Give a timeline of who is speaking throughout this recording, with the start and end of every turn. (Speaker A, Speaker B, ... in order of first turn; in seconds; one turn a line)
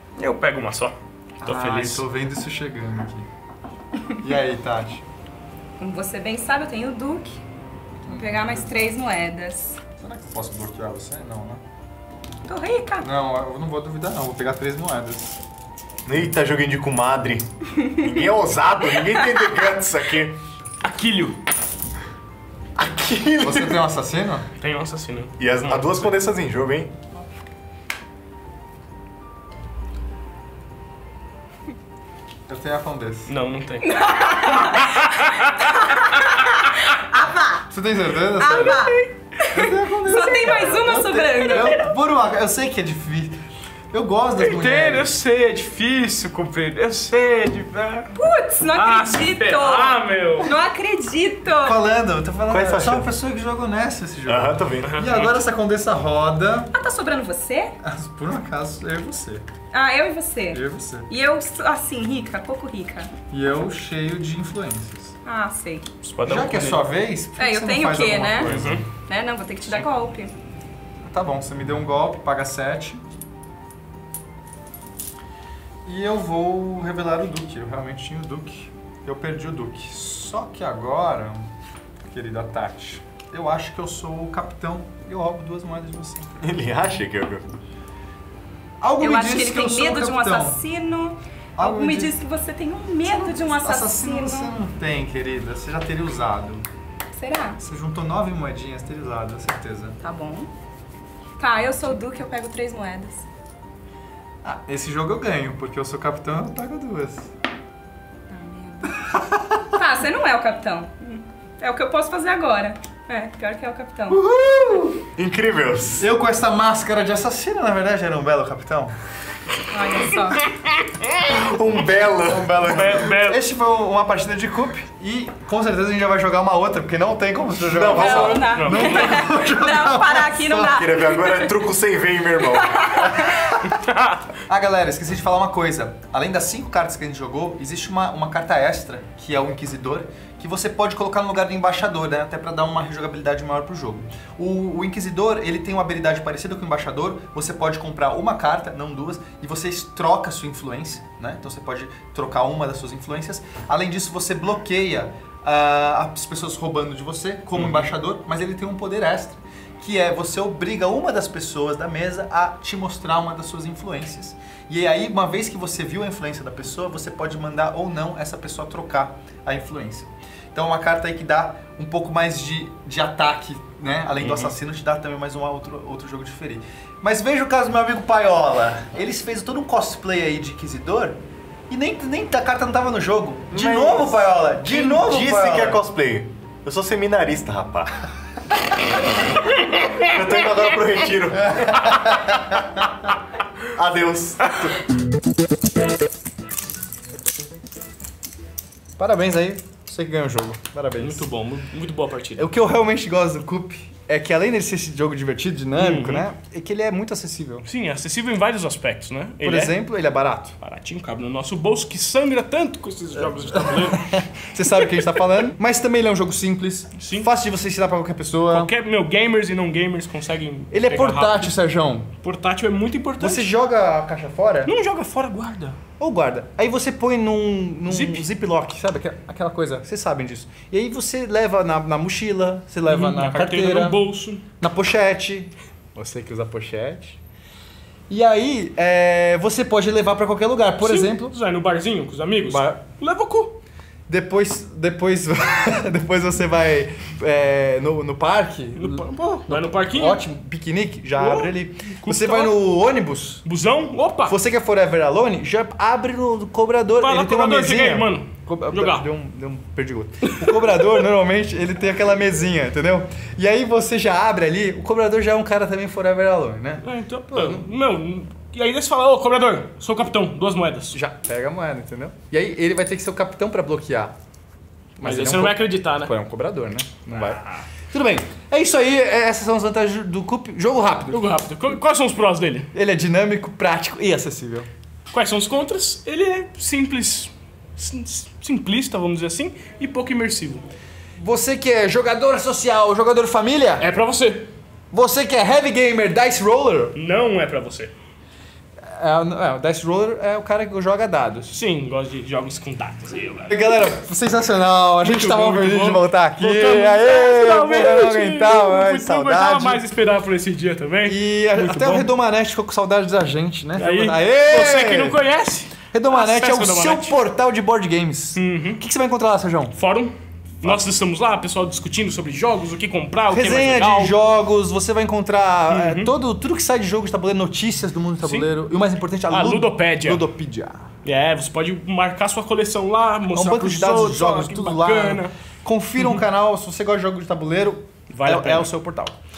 Speaker A: 0.2-2.0
Speaker B: 1.4-3.2
Speaker B: 4.2-5.0
Speaker C: 5.8-7.4
Speaker B: 8.0-8.7
Speaker C: 8.1-9.8
Speaker B: 10.0-11.6
Speaker C: 12.4-13.1
Speaker B: 13.0-15.4
Speaker D: 16.1-20.4
Speaker A: 20.8-21.4
Speaker D: 22.8-23.8
Speaker B: 23.4-24.4
Speaker A: 24.6-26.1
Speaker D: 25.4-26.9
Speaker B: 32.5-33.3
Speaker A: 33.3-36.9
Speaker C: 33.8-37.7
Speaker B: 37.7-38.8
Speaker C: 38.4-41.8
Speaker A: 38.5-38.8
Speaker B: 39.5-43.4
Speaker B: 43.9-45.1
Speaker A: 44.4-48.1
Speaker C: 48.1-51.8
Speaker A: 48.7-50.5
Speaker B: 51.5-56.7
Speaker D: 52.5-53.1
Speaker D: 54.3-55.0
Speaker A: 54.8-55.3
Speaker C: 56.7-57.8
Speaker B: 57.8-59.4
Speaker C: 59.7-63.1
Speaker B: 60.5-61.1
Speaker B: 63.3-65.1
Speaker C: 65.2-65.8
Speaker A: 66.0-66.8
Speaker B: 66.2-68.8
Speaker C: 67.4-70.3
Speaker A: 68.4-68.8
Speaker B: 71.0-73.0
Speaker B: 75.8-81.5
Speaker B: 82.0-86.5
Speaker D: 86.4-87.4
Speaker B: 88.8-90.6
Speaker C: 89.0-94.6
Speaker B: 91.6-92.2
Speaker B: 93.0-96.6
Speaker C: 97.2-97.6
Speaker B: 97.6-100.0
Speaker C: 100.0-100.5
Speaker C: 101.4-103.2
Speaker B: 104.4-107.3
Speaker C: 108.3-109.0
Speaker B: 108.9-109.7
Speaker C: 109.7-114.2
Speaker B: 114.1-115.0
Speaker D: 115.0-116.0
Speaker B: 116.0-118.9
Speaker C: 119.7-120.4
Speaker D: 121.0-123.1
Speaker B: 122.2-130.8
Speaker A: 122.7-123.4
Speaker D: 127.7-128.8
Speaker C: 127.9-131.6
Speaker A: 128.5-129.2
Speaker D: 130.7-133.2
Speaker C: 132.4-133.6
Speaker B: 133.2-133.7
Speaker A: 133.7-134.2
Speaker B: 134.4-185.8
Speaker A: 157.5-157.9
Speaker A: 174.2-174.5
Speaker D: 183.5-188.7
Speaker D: 189.8-192.6
Speaker B: 191.3-192.7
Speaker D: 193.6-194.8
Speaker B: 199.0-201.2
Speaker A: 201.0-202.5
Speaker B: 202.3-207.6
Speaker A: 205.8-206.3
Speaker A: 207.6-209.8
Speaker B: 209.4-210.6
Speaker A: 210.6-215.0
Speaker B: 213.5-218.7
Speaker A: 217.0-217.3
Speaker A: 218.5-221.5
Speaker B: 220.7-222.1
Speaker A: 222.2-223.5
Speaker B: 223.2-224.7
Speaker A: 224.7-225.8
Speaker B: 226.0-234.0
Speaker A: 227.9-228.3
Speaker A: 232.8-234.4
Speaker B: 234.6-237.2
Speaker B: 238.1-241.3
Speaker A: 240.8-243.6
Speaker B: 242.5-242.8
Speaker B: 244.1-253.4
Speaker A: 248.7-250.2
Speaker A: 251.1-252.6
Speaker A: 253.4-254.4
Speaker B: 254.3-267.7
Speaker A: 257.0-259.1
Speaker A: 260.3-260.9
Speaker A: 266.8-271.0
Speaker B: 270.9-274.1
Speaker B: 275.0-277.4
Speaker A: 275.0-276.1
Speaker A: 277.3-277.6
Speaker B: 277.9-281.3
Speaker A: 281.1-282.7
Speaker B: 282.7-284.7
Speaker A: 285.1-290.6
Speaker B: 291.2-293.9
Speaker A: 293.8-294.5
Speaker B: 294.9-296.9
Speaker A: 296.9-297.9
Speaker B: 298.9-301.5
Speaker A: 301.5-303.8
Speaker B: 303.5-309.8
Speaker A: 305.0-312.1
Speaker B: 311.0-315.2
Speaker A: 313.8-317.2
Speaker B: 315.9-319.8
Speaker A: 318.3-318.8
Speaker A: 319.8-324.1
Speaker B: 320.6-320.9
Speaker B: 323.3-330.9
Speaker A: 325.7-326.1
Speaker A: 328.2-328.5
Speaker A: 329.3-330.2
Speaker A: 331.0-335.3
Speaker B: 333.3-339.1
Speaker A: 338.1-338.7